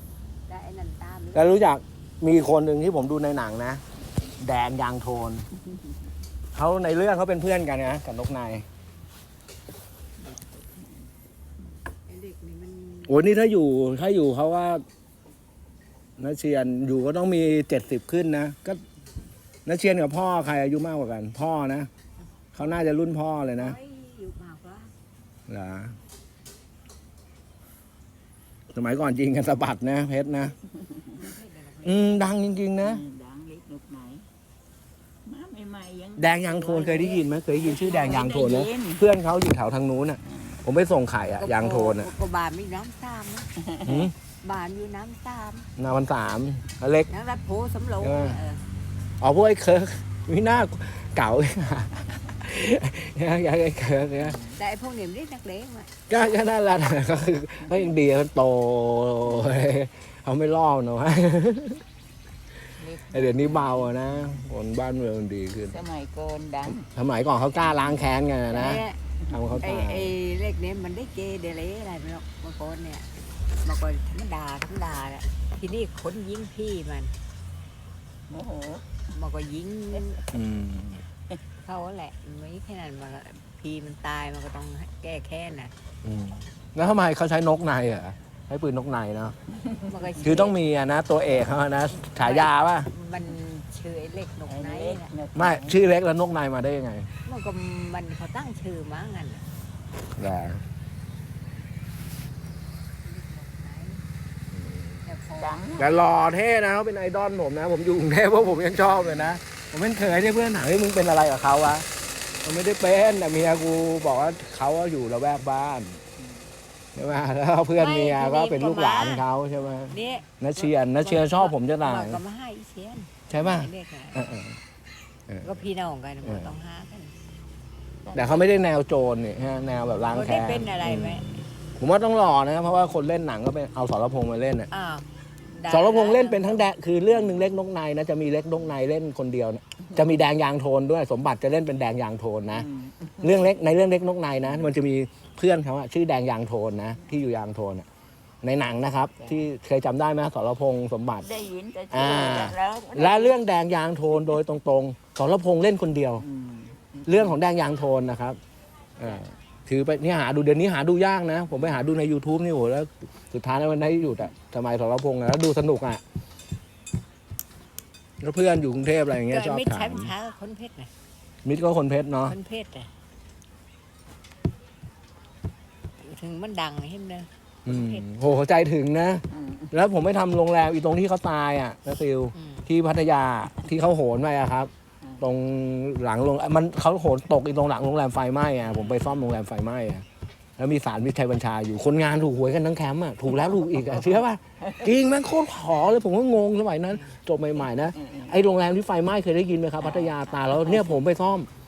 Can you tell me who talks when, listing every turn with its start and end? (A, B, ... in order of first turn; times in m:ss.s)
0:00.5-0:01.7 A
0:01.3-0:03.8 B
0:04.4-0:05.4 B
0:06.5-0:08.6 B
0:12.1-0:13.2 A
0:13.1-0:14.8 B
0:16.2-0:18.8 B
0:19.6-0:21.9 B
0:22.5-0:23.8 B
0:23.6-0:24.9 A
0:25.5-0:25.9 B
0:28.7-0:30.5 B
0:30.9-0:31.2 C
0:31.1-0:32.4 A
0:31.8-0:33.0 B
0:32.8-0:34.2 C
0:35.2-0:39.0 C
0:36.2-0:42.1 B
0:41.4-0:45.7 A
0:43.6-0:44.0 C
0:43.8-0:44.1 B
0:45.8-0:47.1 B
0:47.1-0:48.6 A
0:48.0-0:48.4 B
0:49.2-0:54.4 B
0:54.2-0:54.6 C
0:54.5-0:55.9 A
0:56.1-1:01.8 B
1:02.8-1:04.1 C
1:03.1-1:05.8 B
1:05.7-1:06.9 C
1:06.7-1:10.1 B
1:08.5-1:09.0 A
1:09.6-1:13.1 A
1:13.6-1:17.1 A
1:18.3-1:18.9 C
1:19.1-1:20.3 A
1:20.3-1:21.0 B
1:21.6-1:25.7 A
1:26.0-1:29.4 B
1:29.9-1:30.5 A
1:30.2-1:32.9 B
1:32.2-1:35.1 A
1:34.5-1:35.7 C
1:35.3-1:37.1 B
1:37.2-1:39.4 A
1:40.2-1:40.6 B
1:43.0-1:44.0 A
1:44.5-1:45.0 B
1:45.0-1:45.7 A
1:45.4-1:45.9 C
1:45.8-1:51.8 B
1:52.4-1:56.0 B
1:56.9-2:02.2 B
1:57.8-1:59.2 A
1:59.9-2:04.3 A
2:03.3-2:04.6 B
2:05.3-2:05.6 B
2:05.4-2:07.1 A
2:06.2-2:06.5 B
2:08.0-2:08.4 C
2:08.1-2:14.7 B
2:10.1-2:11.3 A
2:14.7-2:16.6 A
2:15.7-2:22.7 B
2:22.5-2:23.5 C
2:23.2-2:27.9 B
2:28.4-2:31.3 B
2:29.2-2:29.5 C
2:31.2-2:33.4 C
2:31.9-2:36.2 B
2:36.2-2:37.4 C
2:37.1-2:38.4 B
2:39.0-2:46.0 B
2:48.2-2:50.1 B
2:49.3-2:50.9 A
2:51.4-2:52.4 B
2:52.3-2:52.9 A
2:56.0-2:58.0 A
2:57.6-3:10.0 B
2:59.3-2:59.7 C
3:02.3-3:02.6 A
3:10.6-3:21.5 B
3:17.9-3:18.3 C
3:19.8-3:21.0 C